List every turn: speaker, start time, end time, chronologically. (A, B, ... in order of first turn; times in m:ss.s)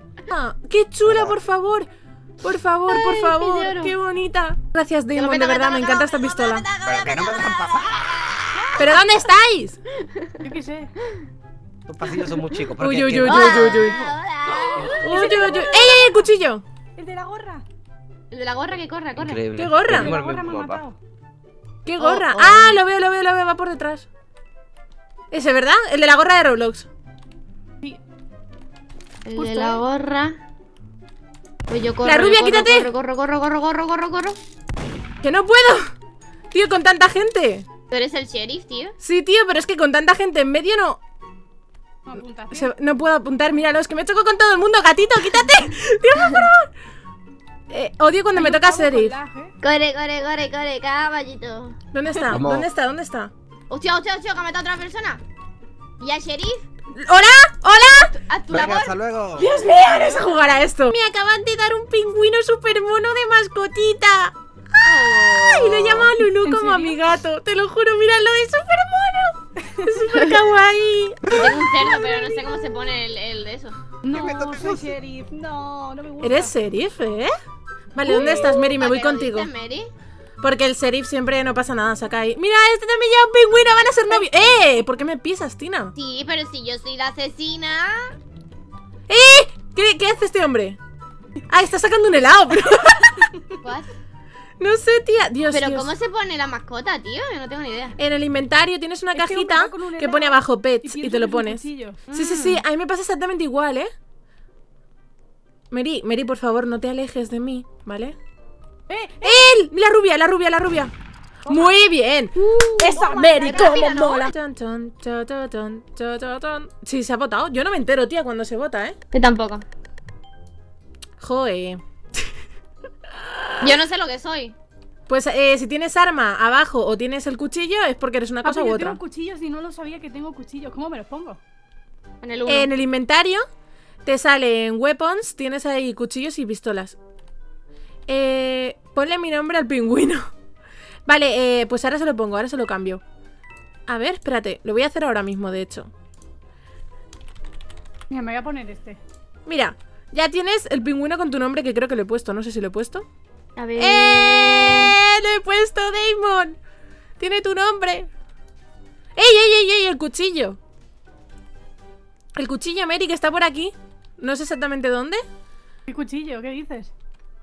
0:00.3-0:01.9 A
0:02.4-0:06.6 A
0:02.9-0:04.0 B
0:05.1-0:08.9 B
0:06.8-0:08.2 C
0:08.5-0:08.9 D
0:08.8-0:09.8 A
0:10.0-0:10.3 B
0:10.4-0:10.9 D
0:11.8-0:14.2 C
0:12.8-0:14.1 A
0:13.2-0:15.9 B
0:14.7-0:15.1 C
0:14.8-0:16.6 A
0:15.0-0:16.3 D
0:17.0-0:17.6 D
0:18.3-0:19.5 B
0:19.1-0:20.8 C
0:19.5-0:20.1 A
0:19.8-0:21.0 D
0:21.8-0:24.1 A
0:22.0-0:22.8 B
0:25.3-0:26.9 A
0:29.2-0:30.4 B
0:29.4-0:29.8 D
0:31.7-0:34.4 B
0:32.0-0:32.9 A
0:35.2-0:35.9 A
0:36.5-0:37.6 A
0:37.9-0:38.9 B
0:39.0-0:41.0 A
0:42.0-0:42.7 D
0:42.5-0:46.7 A
0:47.7-0:49.1 A
0:48.3-0:49.5 D
0:49.6-0:51.7 B
0:51.9-0:53.3 A
0:52.3-0:52.7 C
0:53.7-0:55.2 B
0:56.0-0:56.6 B
0:56.9-0:58.1 A
0:57.8-0:59.4 B
0:58.5-0:59.5 C
0:59.3-1:11.6 A
0:59.9-1:00.2 B
1:04.8-1:06.1 B
1:06.3-1:07.0 D
1:11.3-1:11.6 C
1:11.3-1:13.9 B
1:11.9-1:12.6 D
1:14.0-1:16.5 D
1:14.1-1:14.9 C
1:16.2-1:17.3 A
1:17.9-1:19.5 A
1:18.0-1:18.5 D
1:18.2-1:19.9 B
1:20.4-1:25.9 A
1:24.2-1:24.6 D
1:25.9-1:28.1 B
1:29.1-1:30.8 A
1:31.5-1:33.3 A
1:33.6-1:33.9 B
1:34.6-1:35.9 A
1:35.5-1:38.0 B
1:38.0-1:43.9 A
1:39.1-1:42.4 D
1:42.1-1:42.6 B
1:45.7-1:48.2 A
1:48.9-1:49.5 D
1:49.2-1:50.9 A
1:51.5-1:51.7 D
1:51.5-1:59.0 A
1:52.4-1:54.3 B
1:52.8-1:53.8 D
1:59.1-1:59.6 B
2:01.2-2:01.8 A
2:03.1-2:03.8 A
2:03.6-2:04.6 B
2:05.1-2:09.0 A
2:08.4-2:11.4 D
2:12.2-2:12.7 B
2:12.4-2:13.4 A
2:14.0-2:17.0 A
2:18.1-2:20.3 A
2:21.0-2:23.0 A
2:23.9-2:25.9 A
2:28.1-2:29.0 D
2:29.4-2:33.0 A
2:33.6-2:34.9 B
2:33.8-2:36.6 A
2:37.2-2:38.1 A
2:39.2-2:40.6 A
2:42.4-2:45.2 A
2:45.9-2:46.9 D